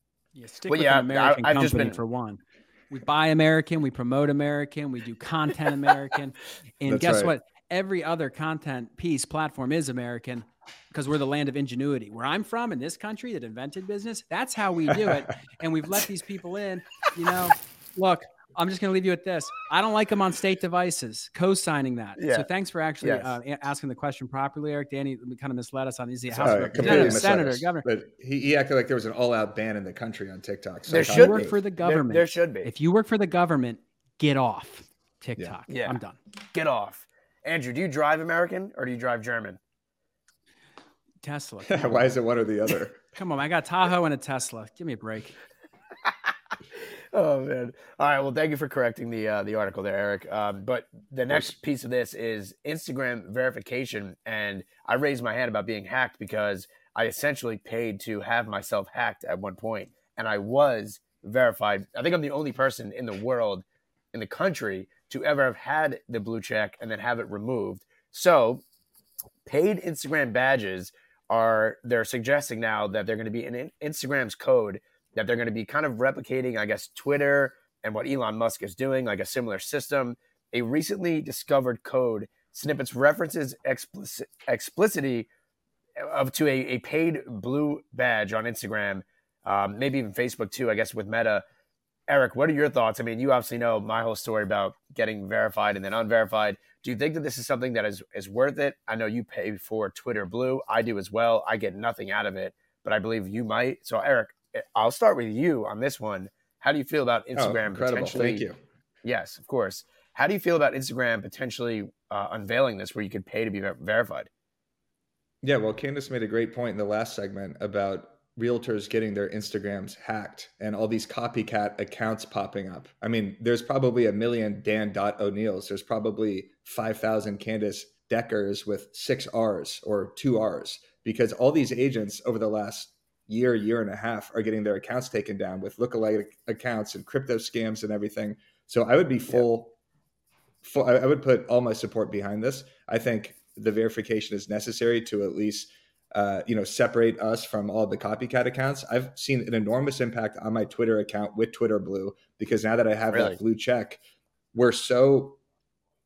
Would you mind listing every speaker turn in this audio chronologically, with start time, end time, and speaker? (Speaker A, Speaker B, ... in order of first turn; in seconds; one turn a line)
Speaker A: 0.3-27.9
Speaker B: 0.7-2.0
Speaker C: 6.8-7.3
Speaker B: 22.2-22.5
Speaker B: 23.0-23.4
Speaker B: 26.3-27.3
Speaker C: 26.4-31.6
Speaker B: 30.9-32.7
Speaker A: 31.0-36.2
Speaker B: 35.7-36.0
Speaker B: 36.5-39.6
Speaker A: 41.2-42.1
Speaker C: 41.7-43.0
Speaker A: 43.1-45.4
Speaker B: 46.8-68.6
Speaker B: 69.4-85.3
Speaker B: 86.0-91.4
Speaker B: 92.1-108.4
Speaker C: 107.3-108.6
Speaker B: 109.0-114.3
Speaker C: 115.4-139.8
Speaker C: 140.6-154.0
Speaker B: 153.1-153.4
Speaker C: 154.5-155.4